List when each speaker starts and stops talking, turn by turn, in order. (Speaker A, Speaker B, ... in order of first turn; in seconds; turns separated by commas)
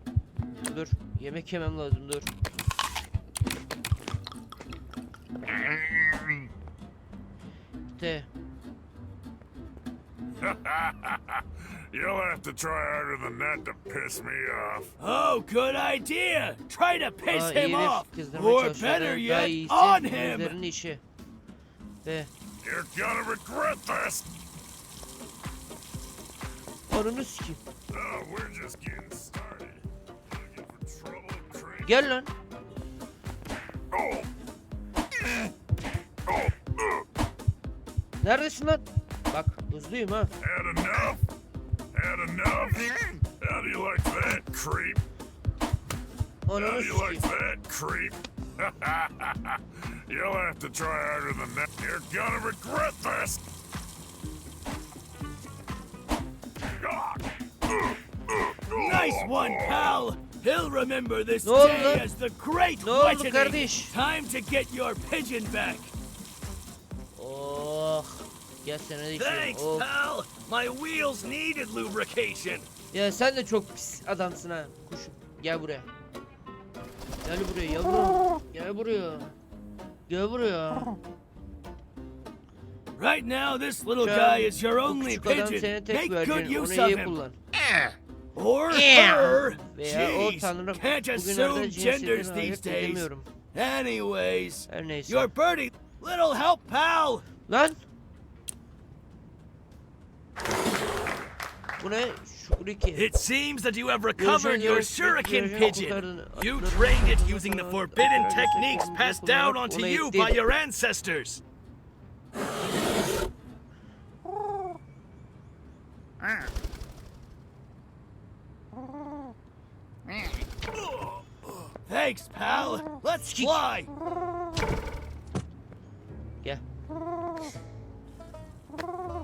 Speaker A: 0.7-2.3, Speaker A: 7.9-8.3, Speaker B: 10.4-14.9, Speaker C: 15.0-20.6, Speaker A: 17.3-21.0, Speaker A: 22.0-22.3, Speaker B: 22.6-24.3, Speaker A: 26.9-27.6, Speaker B: 27.9-32.1, Speaker A: 31.8-32.3, Speaker B: 33.9-34.3, Speaker B: 36.3-37.0, Speaker A: 38.2-40.3, Speaker B: 40.4-41.2, Speaker B: 41.9-45.0, Speaker A: 46.5-47.2, Speaker B: 46.5-53.4, Speaker B: 56.7-60.0, Speaker C: 58.7-65.9, Speaker A: 61.4-62.0, Speaker A: 62.8-63.9, Speaker A: 67.2-69.9, Speaker C: 69.2-72.7, Speaker A: 72.9-75.9, Speaker A: 77.2-79.3, Speaker A: 80.1-81.0, Speaker C: 83.0-87.2, Speaker A: 84.0-87.4, Speaker C: 88.3-97.2, Speaker A: 88.7-93.2, Speaker A: 94.7-95.3, Speaker A: 97.5-97.8, Speaker A: 101.8-103.1, Speaker C: 102.9-111.4, Speaker A: 104.2-110.3, Speaker C: 121.9-123.9, Speaker A: 123.2-123.6